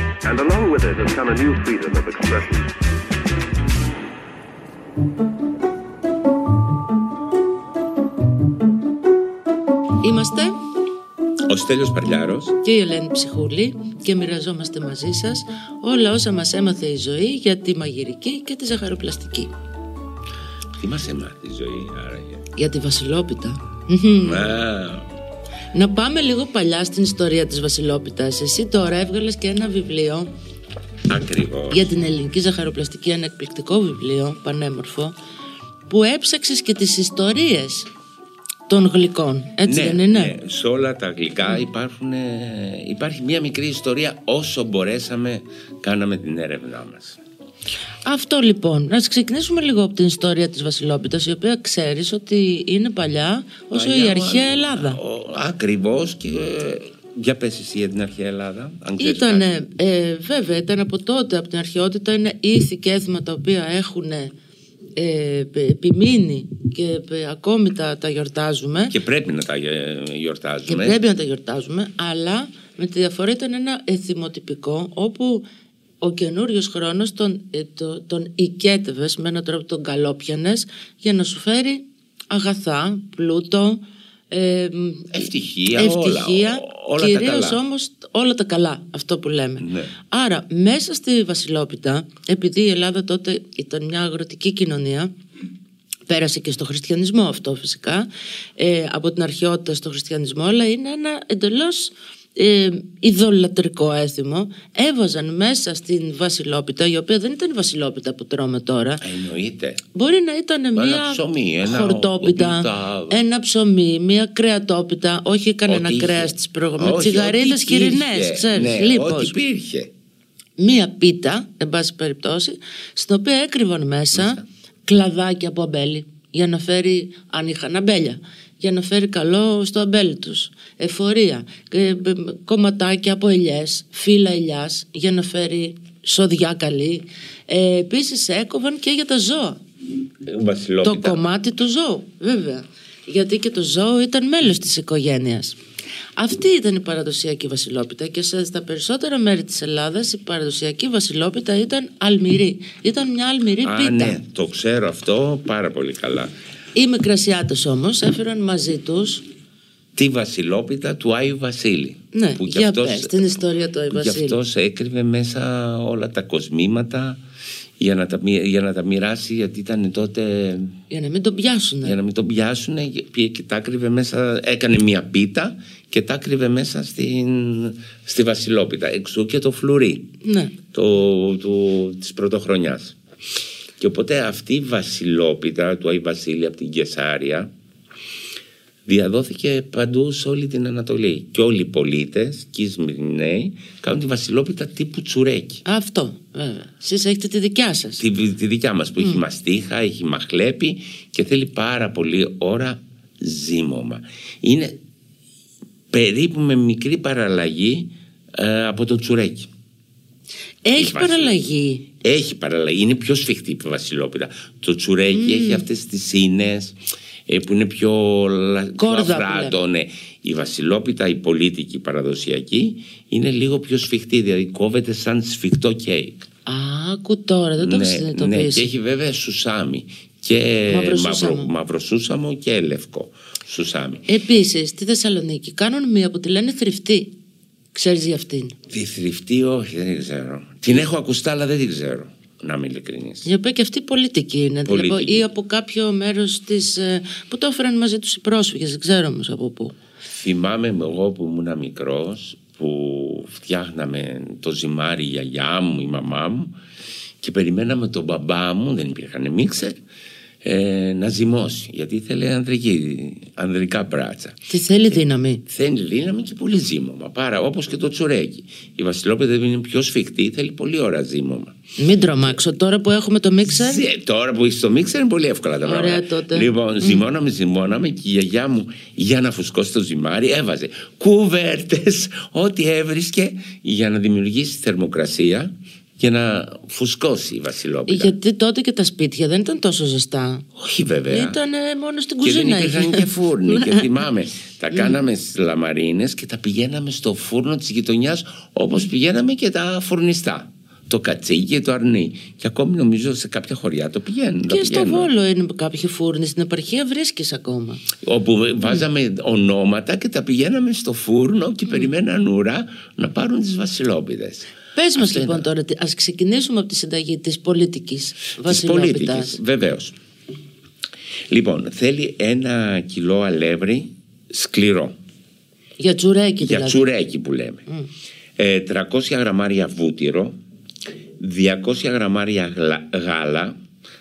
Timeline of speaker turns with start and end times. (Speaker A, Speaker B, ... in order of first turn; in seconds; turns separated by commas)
Speaker A: 0.2-2.7, Speaker B: 10.0-10.6, Speaker C: 11.5-12.6, Speaker B: 12.6-19.5, Speaker C: 20.8-22.4, Speaker B: 22.6-24.5, Speaker C: 24.2-25.1, Speaker B: 25.7-30.3, Speaker C: 31.1-31.9, Speaker B: 31.7-35.1, Speaker B: 35.9-37.9, Speaker B: 38.7-40.3, Speaker C: 39.6-47.2, Speaker B: 48.0-55.0, Speaker C: 53.7-59.5, Speaker B: 59.0-64.3, Speaker B: 65.0-69.0, Speaker C: 68.9-71.0, Speaker B: 70.7-75.5, Speaker B: 76.0-95.1, Speaker C: 85.1-87.6, Speaker C: 89.6-89.9, Speaker B: 96.1-109.0, Speaker C: 109.0-109.8, Speaker B: 109.9-119.3, Speaker C: 110.8-113.2, Speaker C: 115.7-119.9, Speaker B: 120.6-139.6, Speaker C: 124.1-124.4, Speaker C: 140.2-141.2, Speaker B: 140.8-145.6, Speaker B: 146.2-154.2, Speaker C: 153.6-156.3, Speaker B: 156.7-159.2, Speaker C: 159.9-163.4, Speaker B: 162.1-164.4, Speaker C: 163.9-167.2, Speaker C: 167.8-170.7, Speaker B: 170.9-172.0, Speaker C: 171.8-180.1, Speaker B: 180.2-180.6, Speaker C: 180.7-183.0, Speaker C: 183.8-187.5, Speaker C: 188.8-195.6, Speaker B: 195.6-198.0, Speaker C: 198.0-204.8, Speaker C: 205.9-209.5, Speaker B: 210.6-211.9, Speaker C: 210.8-211.3, Speaker C: 212.0-226.2, Speaker B: 215.1-215.6, Speaker B: 218.8-219.6, Speaker B: 226.4-228.7, Speaker C: 227.6-234.0, Speaker B: 230.7-231.5, Speaker B: 234.1-237.1, Speaker B: 237.7-238.6, Speaker C: 238.7-243.3, Speaker B: 243.2-249.8, Speaker C: 244.7-245.2, Speaker C: 250.1-256.6, Speaker C: 257.2-259.8, Speaker C: 260.4-264.4, Speaker B: 264.5-265.4, Speaker C: 265.4-271.6, Speaker B: 271.8-273.9, Speaker C: 273.4-288.1, Speaker B: 275.6-277.0, Speaker B: 287.9-290.4, Speaker C: 290.6-291.4, Speaker B: 291.1-293.9, Speaker C: 292.2-305.1, Speaker B: 294.7-295.0, Speaker B: 304.5-307.8, Speaker C: 308.0-315.5, Speaker B: 314.7-319.4, Speaker C: 318.4-319.9, Speaker C: 321.3-324.9, Speaker B: 325.8-326.8, Speaker C: 326.4-327.6, Speaker C: 328.4-330.4, Speaker C: 331.2-333.6